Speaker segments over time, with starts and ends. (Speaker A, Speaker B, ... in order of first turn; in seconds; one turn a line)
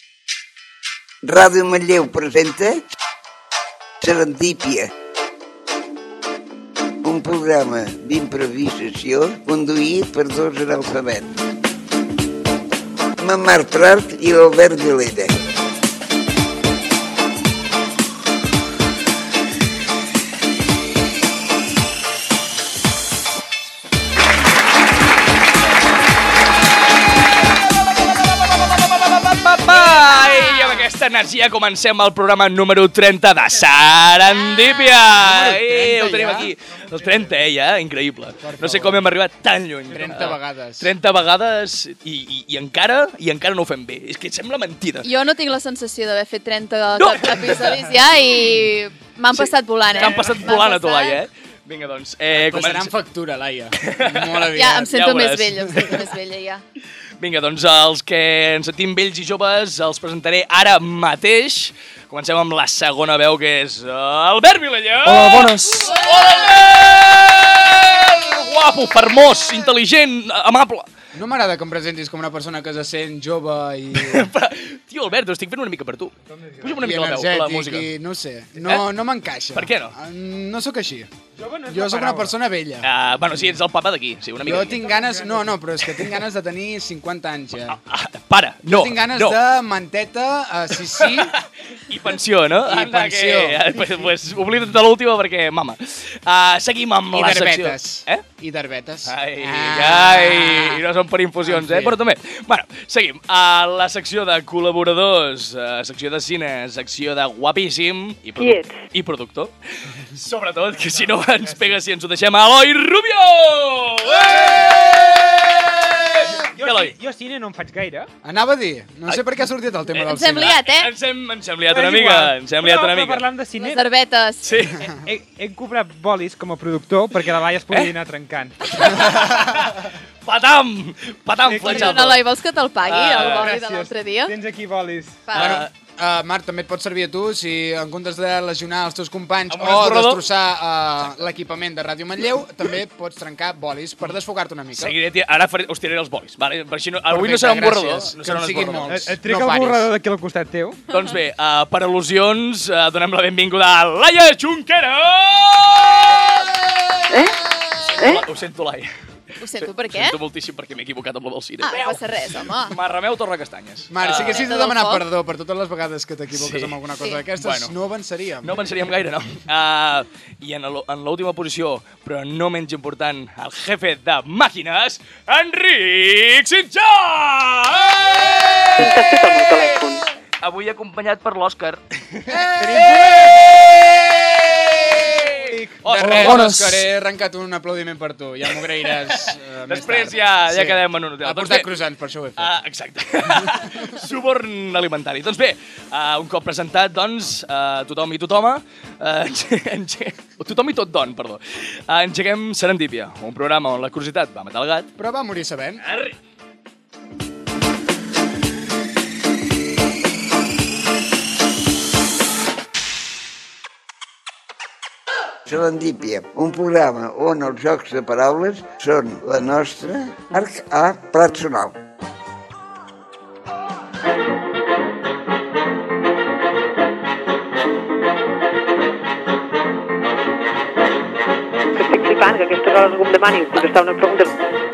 Speaker A: 1.2-2.8
Speaker A: 4.0-4.9
Speaker A: 7.0-11.3
Speaker A: 13.2-15.4
Speaker B: 28.6-45.1
Speaker C: 30.3-30.8
Speaker C: 34.5-35.0
Speaker D: 35.1-36.5
Speaker D: 38.4-39.0
Speaker D: 39.9-40.9
Speaker C: 45.0-51.2
Speaker B: 47.0-47.7
Speaker B: 49.4-52.9
Speaker D: 52.3-54.9
Speaker B: 53.8-55.9
Speaker C: 54.5-56.6
Speaker B: 57.2-70.9
Speaker E: 65.1-65.9
Speaker D: 71.1-74.3
Speaker B: 74.0-77.9
Speaker E: 76.3-76.7
Speaker D: 76.8-81.1
Speaker B: 79.5-79.9
Speaker E: 81.4-82.3
Speaker D: 81.7-82.9
Speaker B: 82.8-84.9
Speaker D: 84.4-87.8
Speaker E: 84.8-85.5
Speaker B: 87.7-89.4
Speaker D: 88.7-91.3
Speaker B: 91.0-98.2
Speaker D: 92.7-94.1
Speaker D: 97.1-100.8
Speaker B: 99.1-116.9
Speaker D: 101.4-102.0
Speaker F: 108.4-108.8
Speaker E: 116.4-118.1
Speaker D: 118.2-120.6
Speaker C: 120.0-120.9
Speaker B: 120.5-123.2
Speaker E: 121.7-123.9
Speaker C: 123.6-124.5
Speaker B: 124.4-124.8
Speaker E: 125.0-129.0
Speaker B: 128.8-132.2
Speaker E: 131.5-132.1
Speaker C: 131.6-134.3
Speaker B: 132.9-133.5
Speaker E: 133.4-135.3
Speaker C: 135.3-135.6
Speaker B: 135.3-135.7
Speaker D: 135.4-145.0
Speaker B: 139.5-140.2
Speaker B: 144.8-148.9
Speaker D: 147.1-149.9
Speaker E: 148.9-150.8
Speaker B: 150.9-158.9
Speaker C: 159.4-160.2
Speaker B: 159.6-162.0
Speaker C: 161.6-162.8
Speaker B: 162.7-164.5
Speaker D: 163.9-168.6
Speaker C: 164.1-165.0
Speaker B: 166.3-166.8
Speaker B: 167.4-167.7
Speaker B: 168.4-178.9
Speaker F: 178.8-180.0
Speaker B: 180.4-186.5
Speaker D: 182.3-185.1
Speaker E: 182.6-183.1
Speaker E: 185.5-186.9
Speaker D: 185.9-192.5
Speaker B: 189.0-191.7
Speaker B: 192.4-204.9
Speaker D: 193.3-193.6
Speaker D: 205.0-205.8
Speaker A: 215.5-221.8
Speaker F: 231.7-234.4